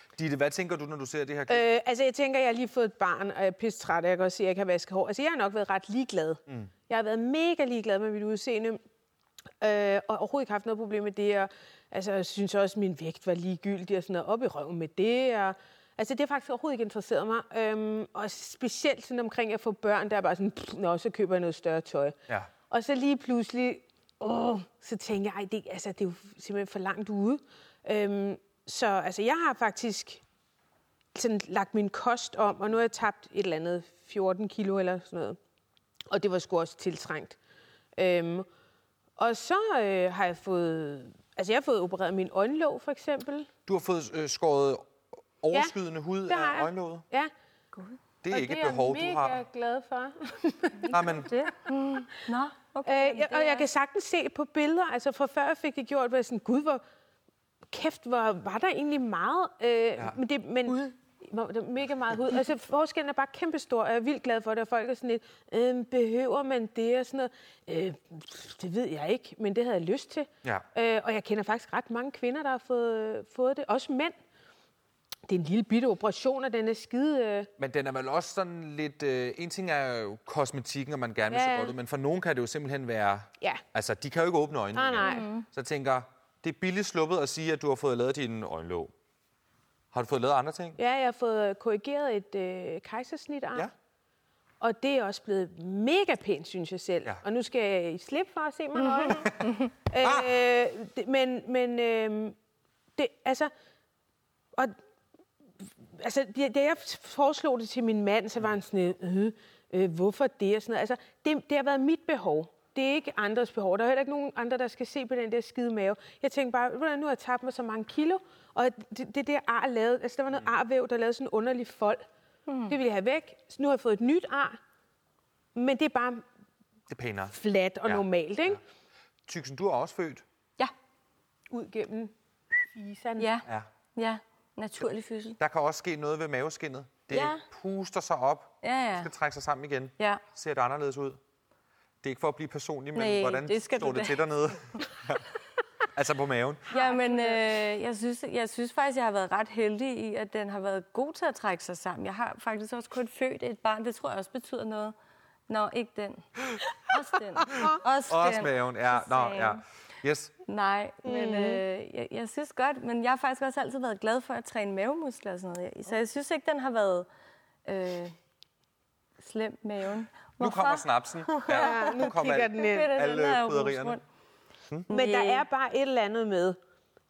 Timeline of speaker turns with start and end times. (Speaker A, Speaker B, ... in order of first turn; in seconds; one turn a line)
Speaker A: 0.1-1.6
Speaker B: 1.5-8.8
Speaker B: 9.6-22.1
Speaker B: 22.7-30.2
Speaker B: 31.1-35.4
Speaker B: 36.1-37.4
Speaker B: 38.0-38.5
Speaker B: 39.2-43.5
Speaker A: 43.7-47.0
Speaker B: 46.3-47.3
Speaker A: 48.2-49.4
Speaker B: 48.3-51.2
Speaker C: 50.9-53.7
Speaker A: 50.9-51.3
Speaker B: 52.9-56.8
Speaker B: 57.7-74.1
Speaker B: 75.3-77.5
Speaker A: 77.6-88.9
Speaker B: 81.3-81.7
Speaker B: 84.7-85.3
Speaker C: 85.0-85.4
Speaker A: 89.9-90.8
Speaker B: 90.8-93.7
Speaker B: 94.6-102.3
Speaker A: 100.0-100.3
Speaker B: 103.0-103.5
Speaker B: 106.0-122.0
Speaker C: 122.5-122.8
Speaker B: 122.7-124.6
Speaker B: 125.5-126.2
Speaker A: 126.9-127.3
Speaker B: 127.3-128.6
Speaker A: 129.3-130.2
Speaker B: 131.5-133.3
Speaker C: 133.2-135.4
Speaker A: 135.4-141.2
Speaker C: 137.1-137.4
Speaker C: 138.6-139.1
Speaker A: 142.0-145.2
Speaker C: 142.9-144.2
Speaker A: 145.9-146.7
Speaker C: 146.7-154.9
Speaker B: 146.7-147.4
Speaker C: 155.5-156.2
Speaker C: 156.8-159.6
Speaker A: 157.6-160.3
Speaker C: 160.4-167.1
Speaker B: 161.1-161.6
Speaker C: 167.7-168.1
Speaker C: 169.2-174.0
Speaker A: 170.4-174.0
Speaker B: 171.5-172.9
Speaker C: 174.9-175.4
Speaker B: 174.9-176.6